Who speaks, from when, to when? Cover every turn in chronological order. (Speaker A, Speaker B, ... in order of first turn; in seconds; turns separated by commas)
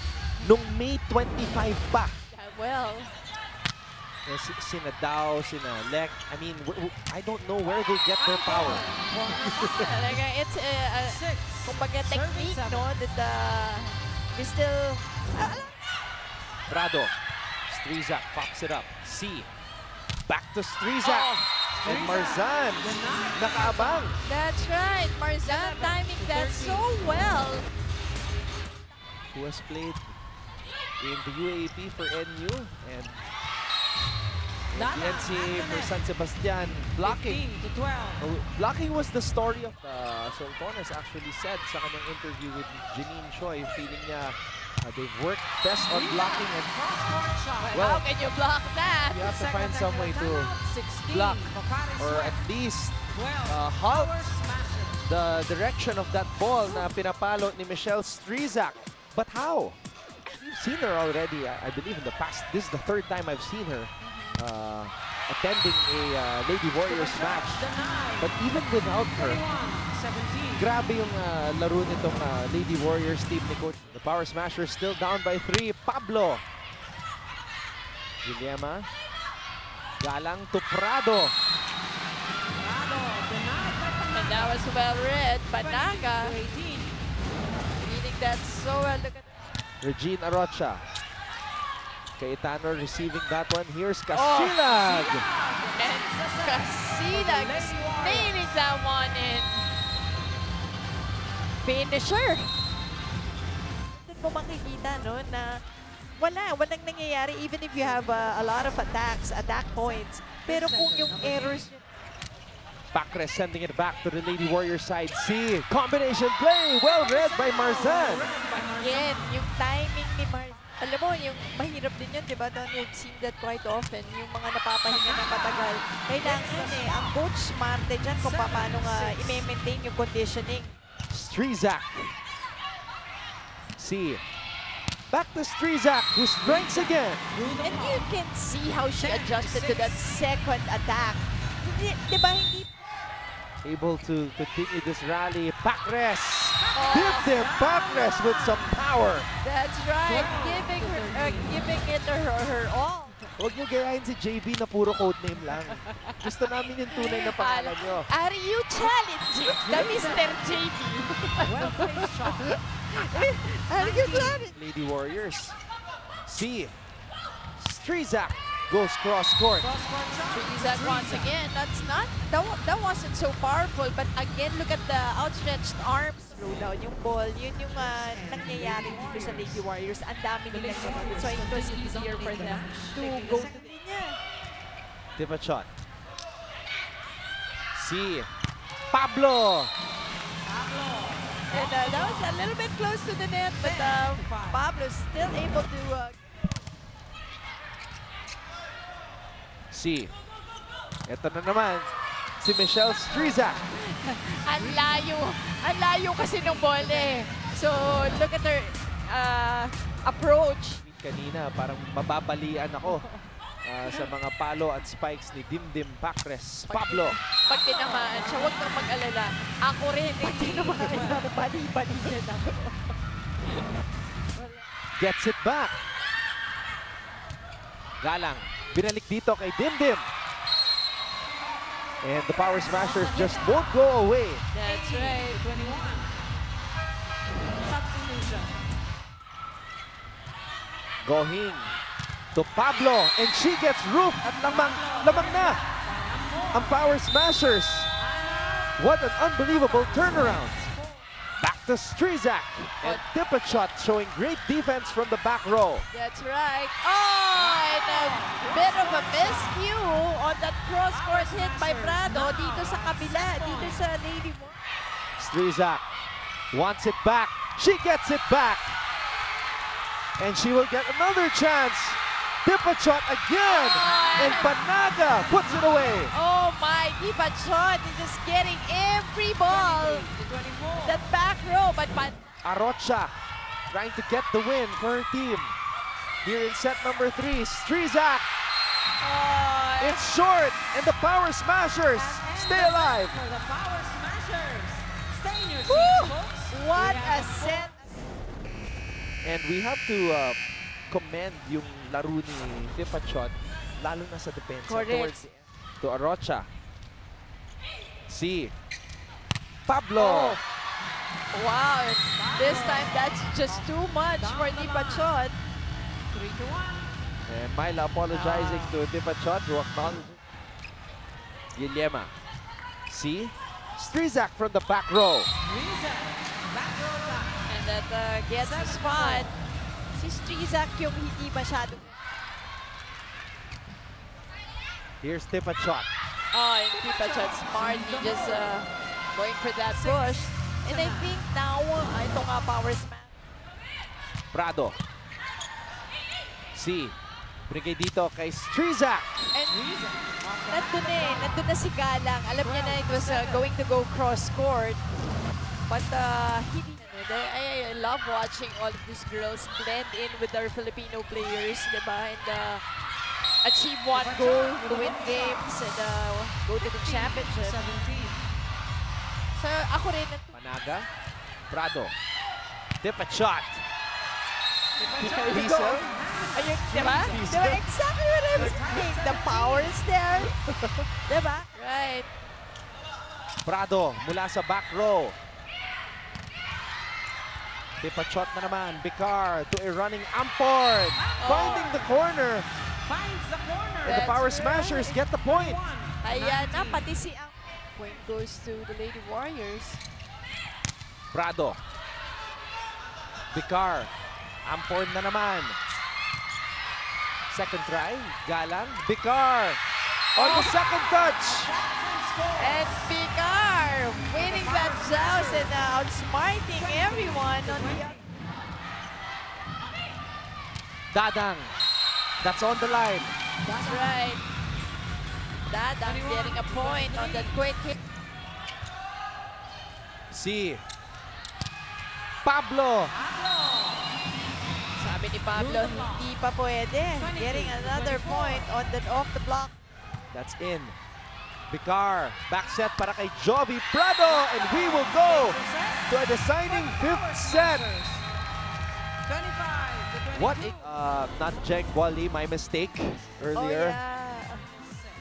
Speaker A: 0.4-2.2, Speaker B: 2.3-3.1, Speaker A: 4.3-8.8, Speaker C: 8.2-9.8, Speaker A: 9.4-9.9, Speaker B: 9.5-15.8, Speaker C: 11.1-12.8, Speaker A: 16.7-17.1, Speaker A: 17.7-19.5, Speaker A: 20.3-24.2, Speaker B: 21.0-21.4, Speaker C: 21.8-24.1, Speaker B: 24.2-27.7, Speaker C: 25.4-26.9, Speaker A: 29.3-30.0, Speaker A: 31.0-33.2, Speaker A: 34.7-37.5, Speaker C: 34.7-35.9, Speaker C: 37.0-38.2, Speaker A: 38.2-46.8, Speaker C: 45.8-47.8, Speaker B: 47.6-49.3, Speaker A: 47.7-48.0, Speaker A: 49.1-50.5, Speaker C: 49.3-52.4, Speaker A: 51.1-54.2, Speaker C: 53.1-55.0, Speaker A: 55.0-59.8, Speaker A: 60.3-67.7, Speaker B: 64.0-64.4, Speaker C: 66.9-68.3, Speaker A: 68.2-69.4, Speaker C: 69.2-70.7, Speaker A: 70.5-76.4, Speaker A: 78.2-78.9, Speaker A: 80.0-81.3, Speaker C: 82.6-84.6, Speaker B: 84.1-86.4, Speaker C: 85.6-87.0, Speaker B: 87.8-89.2, Speaker A: 89.8-90.8, Speaker A: 92.2-95.3, Speaker B: 94.1-94.7, Speaker C: 94.7-98.4, Speaker B: 95.8-99.7, Speaker B: 101.6-102.5, Speaker B: 103.9-105.6, Speaker B: 106.2-111.8, Speaker C: 110.5-111.6, Speaker A: 112.9-118.3, Speaker C: 116.9-119.3, Speaker B: 118.7-130.8, Speaker C: 124.9-125.7, Speaker C: 126.2-127.2, Speaker C: 128.2-129.4, Speaker A: 131.1-132.1, Speaker A: 133.8-134.2, Speaker A: 135.1-137.3, Speaker C: 136.4-138.1, Speaker B: 137.6-142.7, Speaker C: 139.0-140.0, Speaker A: 143.6-149.3, Speaker C: 146.6-148.7, Speaker B: 146.7-147.4, Speaker B: 149.4-153.2, Speaker C: 150.1-151.5, Speaker A: 153.4-158.1, Speaker B: 155.7-156.3, Speaker B: 156.9-164.6, Speaker C: 159.5-160.4, Speaker C: 161.4-162.6, Speaker C: 163.8-164.4, Speaker A: 164.3-165.6, Speaker A: 166.2-166.7, Speaker A: 167.6-169.7, Speaker C: 169.6-171.3, Speaker B: 170.3-184.2, Speaker C: 178.0-179.6, Speaker C: 180.5-183.5, Speaker A: 185.2-185.7, Speaker A: 187.7-188.3, Speaker A: 188.9-189.7, Speaker C: 190.5-192.2, Speaker B: 191.5-196.2, Speaker C: 193.6-194.6, Speaker A: 199.7-200.1, Speaker A: 201.1-201.9, Speaker A: 202.4-203.6, Speaker C: 203.2-203.6, Speaker B: 203.3-210.8, Speaker C: 204.6-205.1, Speaker C: 206.3-207.3, Speaker A: 210.8-213.1, Speaker A: 213.6-217.2, Speaker B: 216.7-222.8, Speaker C: 217.5-218.8, Speaker C: 220.2-221.2, Speaker A: 225.0-225.8, Speaker A: 228.0-230.1, Speaker A: 232.0-234.5, Speaker C: 232.7-233.8, Speaker B: 234.5-235.5, Speaker C: 234.6-236.2, Speaker C: 237.7-238.6, Speaker A: 241.0-241.7, Speaker A: 242.3-245.6, Speaker C: 244.5-246.7, Speaker A: 246.5-247.9, Speaker C: 248.0-248.8, Speaker A: 248.8-250.7, Speaker C: 249.5-250.9, Speaker A: 251.4-255.9, Speaker B: 255.9-264.6, Speaker C: 257.3-259.6, Speaker C: 260.9-263.8, Speaker A: 265.2-265.8, Speaker A: 266.5-268.8, Speaker A: 270.2-276.1, Speaker B: 273.4-274.6, Speaker B: 275.4-280.1, Speaker C: 279.5-281.0, Speaker B: 280.8-282.2, Speaker A: 282.4-283.1, Speaker A: 283.7-285.6, Speaker A: 286.2-288.2, Speaker B: 289.0-290.0, Speaker A: 289.8-293.2, Speaker C: 291.9-297.7, Speaker B: 295.7-297.9, Speaker A: 299.2-300.4, Speaker A: 300.9-305.2, Speaker B: 304.7-305.4, Speaker A: 305.8-306.5, Speaker A: 308.1-308.5, Speaker A: 309.7-310.4, Speaker B: 309.9-310.4, Speaker B: 311.3-315.4, Speaker C: 312.2-315.1, Speaker C: 316.1-316.9, Speaker A: 317.3-320.2, Speaker B: 318.1-318.8, Speaker A: 321.5-322.1, Speaker A: 322.9-325.3, Speaker C: 325.4-327.5, Speaker B: 327.5-329.3, Speaker C: 328.4-329.3, Speaker B: 330.0-331.9, Speaker A: 335.0-335.9, Speaker B: 336.3-343.1, Speaker C: 336.7-338.6, Speaker C: 339.7-341.1, Speaker A: 344.3-344.8, Speaker A: 346.5-347.0, Speaker A: 347.5-349.4, Speaker B: 349.3-349.6, Speaker C: 349.5-351.4, Speaker B: 350.5-354.8, Speaker C: 352.4-353.5, Speaker B: 355.7-362.6, Speaker B: 363.4-367.7, Speaker C: 363.9-365.5, Speaker C: 366.6-368.2, Speaker B: 369.4-370.4, Speaker A: 370.3-370.9, Speaker A: 371.5-371.9, Speaker A: 372.8-373.6, Speaker C: 374.8-376.9, Speaker B: 375.0-380.4, Speaker A: 375.2-376.0, Speaker A: 376.7-377.6, Speaker C: 378.4-379.7, Speaker B: 381.1-382.1, Speaker A: 383.4-385.2, Speaker A: 387.8-392.5, Speaker C: 391.0-391.8, Speaker B: 391.2-391.8, Speaker C: 392.8-394.0, Speaker A: 393.8-395.6, Speaker B: 393.9-395.1, Speaker C: 395.2-396.8, Speaker B: 396.0-399.8, Speaker A: 401.1-401.6, Speaker A: 403.3-403.9, Speaker A: 404.4-405.6, Speaker A: 407.3-409.6, Speaker B: 410.2-410.7, Speaker A: 410.2-411.6, Speaker C: 410.7-412.7, Speaker B: 412.3-418.0, Speaker C: 414.2-415.5, Speaker C: 416.6-418.0, Speaker A: 420.9-421.5, Speaker A: 422.2-423.2, Speaker C: 423.4-424.0, Speaker B: 423.5-424.2, Speaker B: 425.5-427.8, Speaker C: 425.9-427.3, Speaker A: 430.1-430.6, Speaker A: 432.2-433.0, Speaker C: 432.9-433.9, Speaker B: 434.8-439.6, Speaker C: 435.3-436.1, Speaker C: 437.0-438.5, Speaker A: 440.1-440.8, Speaker A: 441.5-447.8, Speaker C: 444.2-448.0, Speaker C: 449.1-450.6, Speaker A: 450.1-453.8, Speaker B: 453.3-454.5